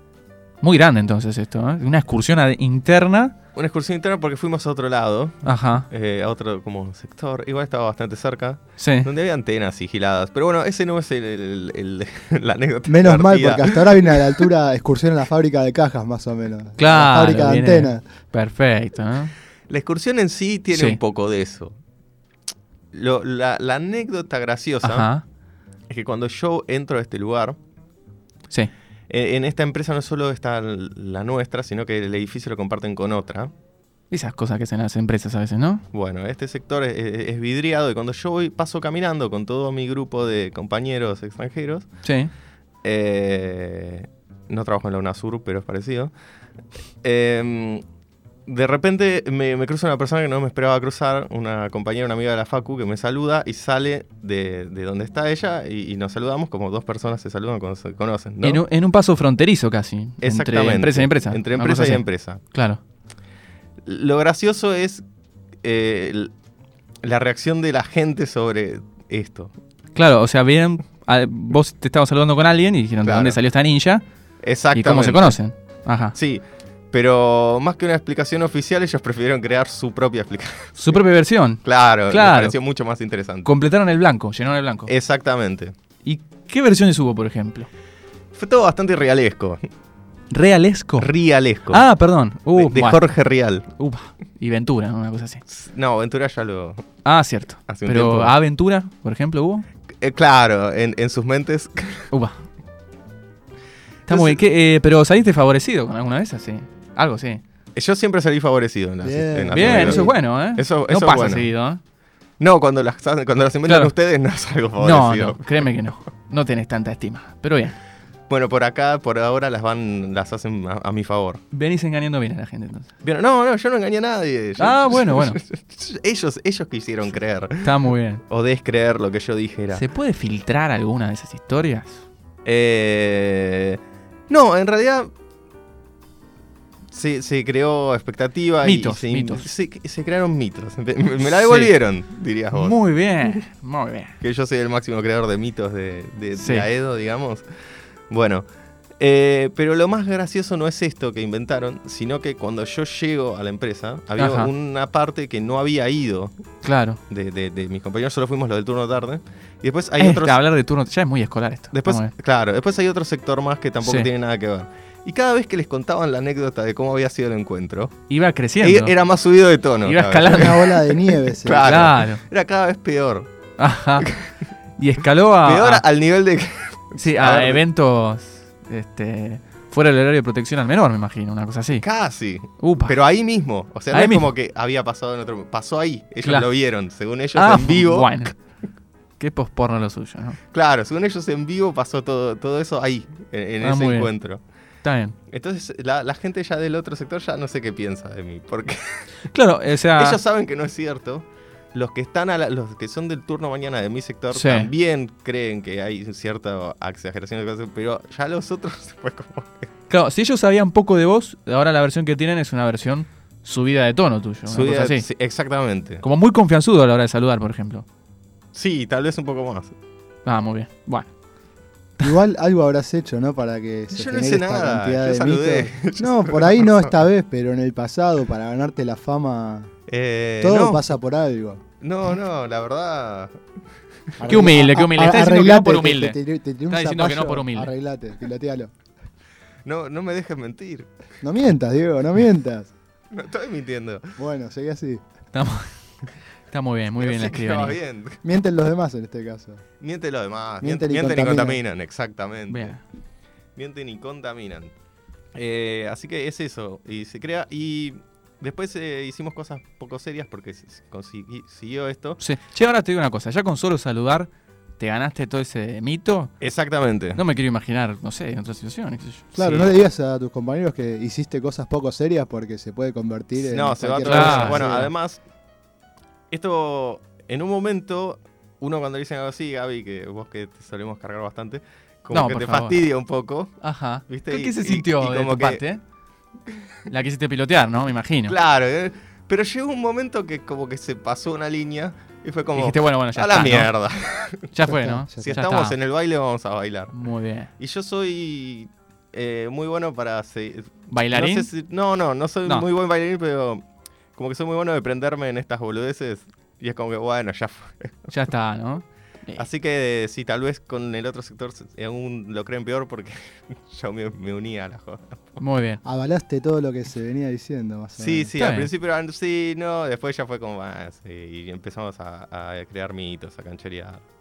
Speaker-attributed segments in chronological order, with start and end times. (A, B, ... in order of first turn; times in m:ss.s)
0:00.6-0:03.4 A
0:03.5-0:14.4 B
0:05.4-0:05.9 A
0:08.8-0:09.1 A
0:12.9-0:18.0 C
0:16.8-0:19.3 A
0:19.7-0:21.8 B
0:20.7-0:21.0 A
0:22.9-0:25.1 B
0:24.8-0:25.2 A
0:25.9-0:27.6 B
0:29.1-0:33.5 B
0:34.1-0:35.8 A
0:35.9-0:41.9 B
0:42.0-0:42.3 A
0:42.8-0:46.1 B
0:47.0-0:47.8 B
0:48.5-0:58.6 B
0:58.4-1:02.8 A
1:00.2-1:02.4 B
1:03.8-1:05.0 B
1:05.6-1:06.3 B
1:07.0-1:09.5 B
1:09.9-1:14.0 A
1:13.0-1:13.4 B
1:14.4-1:15.4 B
1:14.7-1:16.2 A
1:16.1-1:21.0 B
1:20.8-1:22.6 A
1:21.6-1:23.5 B
1:23.4-1:24.9 A
1:24.9-1:25.7 B
1:26.0-1:27.7 A
1:28.3-1:29.6 B
1:30.3-1:31.1 A
1:31.0-1:31.8 B
1:31.7-1:35.4 A
1:32.6-1:33.7 B
1:35.5-1:36.8 B
1:37.0-1:39.6 A
1:37.7-1:38.4 B
1:40.0-1:42.1 B
1:42.1-1:42.4 A
1:44.1-1:47.4 A
1:44.1-1:44.4 B
1:47.8-1:51.5 B
1:49.0-1:50.1 C
1:49.5-1:51.8 A
1:52.4-1:55.5 B
1:53.6-1:53.9 A
1:54.8-1:57.8 A
1:58.3-2:01.4 B
2:01.5-2:02.9 A
2:03.0-2:07.7 B
2:04.6-2:05.4 A
2:07.6-2:08.2 A
2:08.3-2:09.8 B
2:09.7-2:12.0 A
2:12.4-2:15.1 B
2:16.9-2:22.8 B
2:18.6-2:19.5 A
2:21.2-2:21.7 A
2:22.5-2:24.2 A
2:24.2-2:27.4 B
2:26.4-2:26.7 A
2:28.1-2:28.5 B
2:29.0-2:36.3 B
2:34.2-2:34.5 A
2:36.6-2:37.0 A
2:37.1-2:40.4 B
2:40.0-2:42.1 A
2:41.7-2:48.0 B
2:43.8-2:44.1 A
2:48.1-2:48.9 A
2:48.6-2:53.3 B
2:49.8-2:50.8 A
2:50.3-2:51.9 C
2:51.6-2:52.2 A
2:53.6-2:54.1 A
2:54.8-2:55.8 A
2:55.4-2:57.6 B
2:57.0-3:01.9 A
3:01.8-3:08.3 B
3:02.6-3:03.0 A
3:03.9-3:04.3 A
3:06.2-3:06.6 A
3:07.3-3:08.3 A
3:09.2-3:10.4 A
3:10.5-3:14.4 B
3:13.6-3:14.1 A
3:14.8-3:15.2 A
3:15.3-3:19.1 B
3:19.3-3:20.2 A
3:20.0-3:29.7 B
3:24.3-3:24.7 A
3:29.9-3:35.1 A
3:34.5-3:36.0 B
3:36.0-3:37.9 A
3:38.5-3:39.7 B
3:40.2-3:41.1 A
3:42.0-3:49.7 C
3:43.9-3:46.9 B
3:49.9-3:50.8 B
3:50.4-3:51.6 C
3:51.8-3:53.3 B
3:54.2-3:58.7 C
3:54.3-3:57.7 A
3:59.6-4:00.9 B
4:01.2-4:02.7 C
4:03.1-4:04.2 B
4:04.2-4:05.0 C
4:05.3-4:05.7 A
4:06.5-4:07.8 A
4:07.0-4:08.2 B
4:08.2-4:09.6 C
4:09.8-4:12.8 B
4:10.6-4:11.6 C
4:12.5-4:12.8 A
4:13.6-4:14.7 B
4:15.4-4:22.2 B
4:22.2-4:26.3 A
4:26.4-4:27.2 B
4:27.1-4:29.4 A
4:29.4-4:34.9 C
4:29.4-4:29.7 B
4:33.4-4:35.2 B
4:34.0-4:34.9 A
4:36.3-4:43.6 B
4:42.1-4:42.9 A
4:43.6-4:45.8 A
4:44.1-4:45.6 B
4:46.9-4:48.4 A
4:48.3-4:54.6 B
4:52.5-4:53.7 A
4:54.5-4:55.8 A
4:54.7-4:55.4 C
4:55.2-4:56.9 B
4:56.9-4:57.5 A
4:57.6-5:03.6 B
5:00.9-5:01.5 A
5:04.2-5:08.1 B
5:08.1-5:09.5 A
5:09.4-5:15.4 B
5:15.4-5:15.8 A
5:15.8-5:18.3 C
5:18.0-5:24.0 B
5:18.4-5:18.7 A